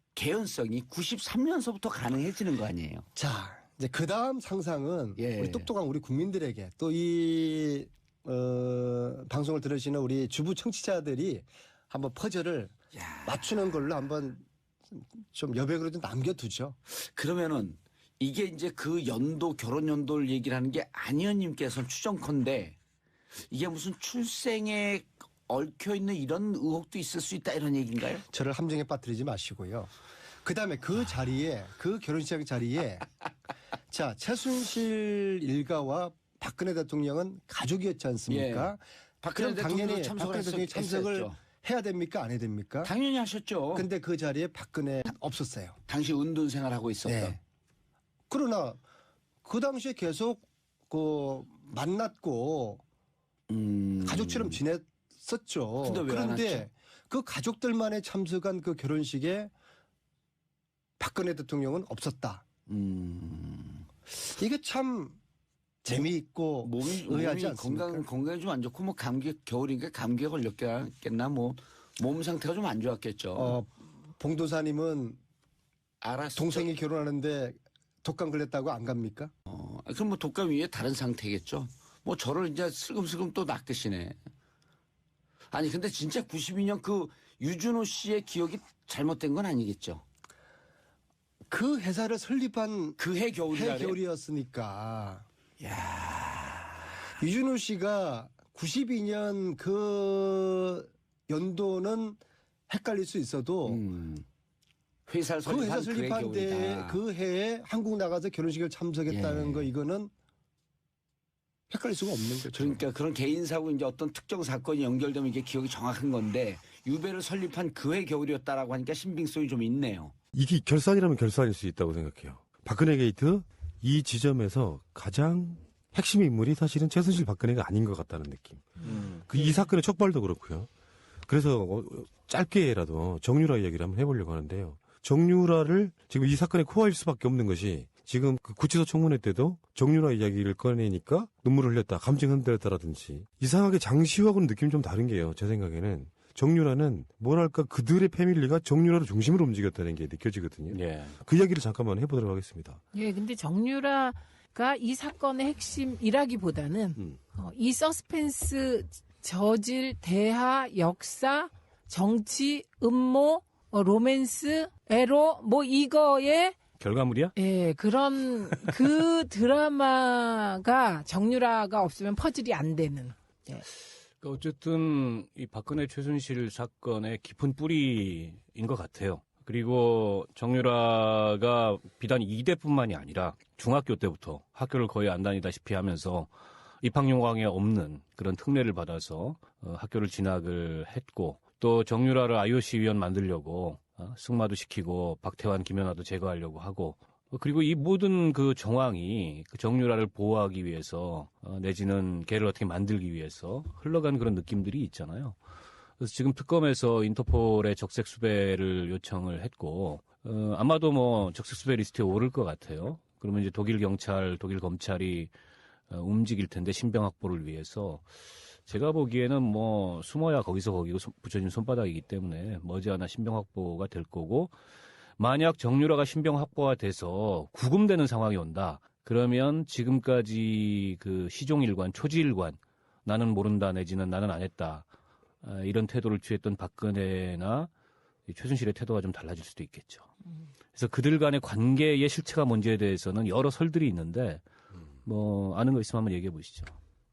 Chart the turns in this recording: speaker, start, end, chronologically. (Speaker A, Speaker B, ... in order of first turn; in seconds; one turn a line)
Speaker A: 0.1-3.0
Speaker B: 3.1-12.7
Speaker A: 5.2-5.7
Speaker A: 12.9-13.6
Speaker B: 13.2-16.8
Speaker A: 16.9-22.8
Speaker A: 23.5-28.2
Speaker B: 28.3-29.9
Speaker B: 30.4-33.0
Speaker B: 33.9-38.8
Speaker A: 38.3-41.4
Speaker B: 39.3-42.9
Speaker A: 42.8-43.9
Speaker B: 43.7-45.8
Speaker A: 45.9-47.4
Speaker B: 47.0-47.4
Speaker B: 48.3-48.8
Speaker B: 49.4-52.8
Speaker A: 53.5-54.6
Speaker B: 54.0-59.5
Speaker A: 55.8-56.7
Speaker B: 61.0-62.5
Speaker A: 62.7-63.9
Speaker B: 64.3-65.2
Speaker B: 65.8-68.0
Speaker A: 66.6-73.6
Speaker B: 73.3-75.2
Speaker A: 76.0-76.7
Speaker B: 76.3-79.3
Speaker A: 79.5-84.2
Speaker A: 85.5-90.0
Speaker B: 91.5-93.0
Speaker A: 93.0-94.0
Speaker B: 93.5-95.2
Speaker A: 95.6-96.9
Speaker B: 97.2-103.8
Speaker A: 103.6-104.2
Speaker A: 105.1-107.0
Speaker B: 105.4-110.1
Speaker A: 109.1-109.7
Speaker B: 111.7-112.8
Speaker A: 112.5-120.1
Speaker C: 120.3-130.7
Speaker D: 128.9-129.2
Speaker C: 131.2-152.8
Speaker D: 150.7-151.2
Speaker E: 152.9-166.6
Speaker D: 166.8-167.3
Speaker E: 167.3-173.6
Speaker D: 168.5-168.9
Speaker D: 174.2-186.3
Speaker D: 186.8-205.4
Speaker D: 206.0-215.3
Speaker D: 215.9-218.0
Speaker D: 218.7-224.5
Speaker D: 225.2-234.9
Speaker D: 235.4-237.7
Speaker D: 238.3-240.1
Speaker D: 240.7-244.4
Speaker D: 245.0-246.7